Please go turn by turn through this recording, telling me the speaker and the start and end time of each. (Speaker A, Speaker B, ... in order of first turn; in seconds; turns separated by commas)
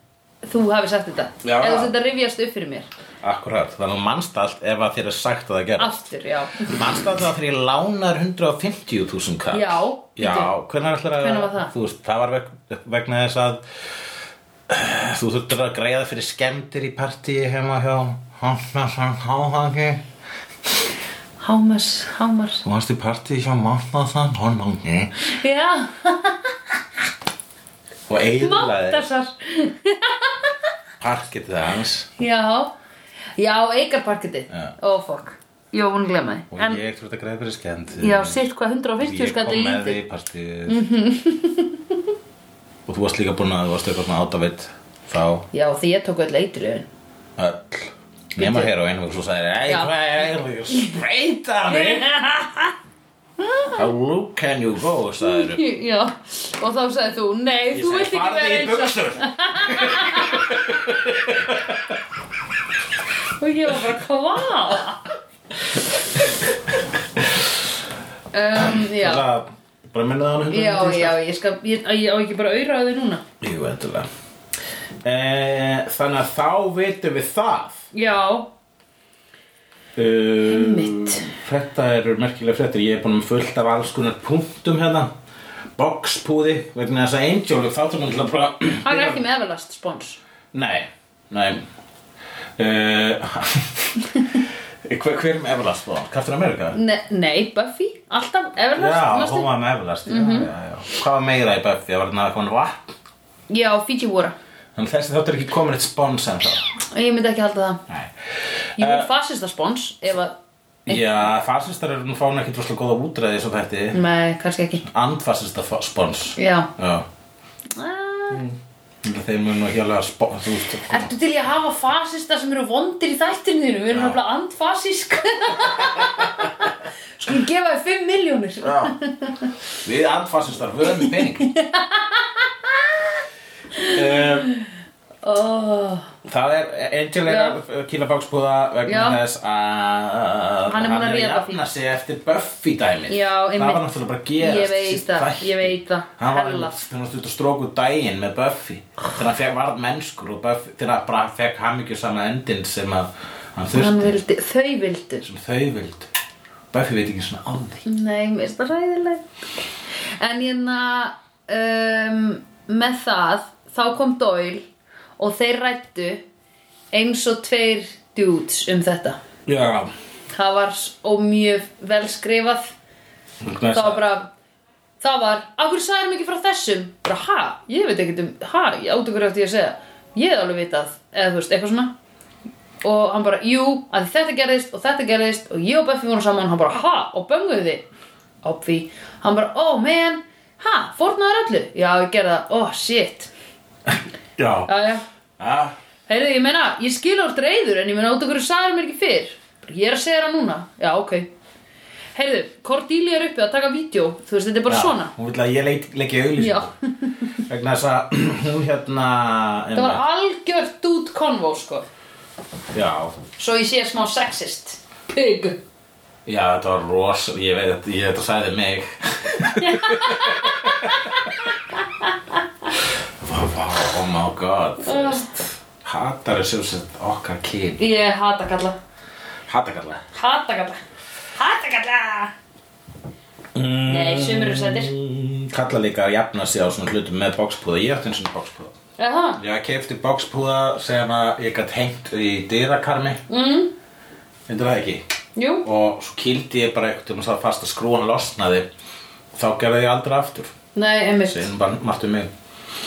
Speaker A: 0.4-2.9, Speaker B: 1.4-1.9, Speaker B: 3.2-6.0, Speaker A: 5.8-7.1, Speaker B: 6.6-13.6, Speaker A: 9.5-10.5, Speaker A: 11.2-11.7, Speaker B: 14.7-20.1, Speaker A: 21.4-22.7, Speaker B: 22.6-25.1, Speaker A: 25.2-26.5, Speaker B: 28.1-29.1, Speaker A: 28.4-30.6, Speaker B: 31.0-32.1, Speaker A: 32.2-32.7, Speaker A: 33.4-36.8, Speaker B: 36.5-38.4, Speaker A: 38.0-40.0, Speaker B: 39.0-40.9, Speaker A: 40.7-42.0, Speaker B: 42.9-45.5, Speaker A: 45.5-46.9, Speaker B: 47.4-52.1, Speaker A: 48.4-48.7, Speaker A: 49.7-49.9, Speaker A: 51.7-52.7, Speaker A: 53.4-53.8, Speaker B: 53.8-55.6, Speaker A: 55.2-60.6, Speaker B: 57.7-62.0, Speaker A: 63.3-65.1, Speaker A: 68.3-69.2, Speaker B: 68.5-71.2, Speaker A: 70.5-73.2, Speaker B: 73.4-74.1, Speaker B: 75.0-77.8, Speaker A: 77.9-78.5, Speaker B: 80.0-85.1, Speaker A: 80.5-81.3, Speaker B: 85.8-89.2, Speaker A: 88.8-90.2, Speaker B: 90.5-91.6, Speaker B: 92.6-96.8, Speaker A: 96.7-99.5, Speaker B: 98.8-102.9, Speaker A: 100.1-100.5, Speaker A: 103.5-104.3, Speaker B: 104.8-106.6, Speaker A: 106.9-107.8, Speaker B: 107.9-109.1, Speaker A: 108.8-110.4, Speaker B: 110.9-114.0, Speaker A: 110.9-111.3, Speaker A: 113.9-114.9, Speaker B: 114.8-117.1, Speaker A: 116.4-116.7, Speaker A: 117.7-118.5, Speaker B: 118.3-121.1, Speaker A: 120.9-129.5, Speaker B: 123.9-124.2, Speaker B: 125.7-126.3, Speaker B: 128.6-128.9, Speaker B: 129.8-131.5, Speaker A: 131.0-133.1, Speaker A: 133.7-134.7, Speaker B: 133.8-134.5, Speaker A: 135.2-136.1, Speaker B: 136.2-154.2, Speaker A: 137.3-137.6, Speaker A: 138.9-139.2, Speaker A: 140.7-141.6, Speaker A: 143.1-143.8, Speaker A: 144.4-146.8, Speaker A: 153.7-155.2, Speaker B: 155.2-156.1, Speaker B: 156.7-157.8, Speaker A: 157.9-159.2, Speaker A: 160.2-164.7, Speaker A: 165.2-166.2, Speaker A: 166.9-169.2, Speaker B: 169.5-169.9, Speaker A: 170.3-172.7, Speaker B: 173.4-174.1, Speaker A: 173.7-174.3, Speaker A: 175.0-181.9, Speaker A: 182.8-187.8, Speaker A: 188.4-193.3, Speaker B: 193.9-194.7, Speaker A: 194.7-195.1, Speaker B: 195.4-195.7, Speaker A: 196.1-201.3, Speaker A: 202.2-205.1, Speaker B: 204.7-206.7, Speaker A: 206.4-207.1, Speaker B: 207.4-210.0, Speaker A: 209.8-211.9, Speaker B: 212.7-213.2, Speaker A: 213.4-215.6, Speaker B: 216.2-221.3, Speaker A: 219.4-222.4, Speaker B: 223.2-227.8, Speaker A: 224.8-225.3, Speaker A: 227.8-228.8, Speaker B: 229.5-230.0, Speaker A: 230.1-230.8, Speaker A: 231.3-232.3, Speaker B: 233.6-238.7, Speaker A: 233.9-234.9, Speaker A: 239.0-239.4, Speaker B: 239.4-243.2, Speaker A: 243.3-243.7, Speaker B: 244.5-245.0, Speaker A: 245.4-245.7, Speaker B: 245.6-248.7, Speaker B: 249.3-250.5, Speaker A: 250.8-251.5, Speaker B: 251.3-252.3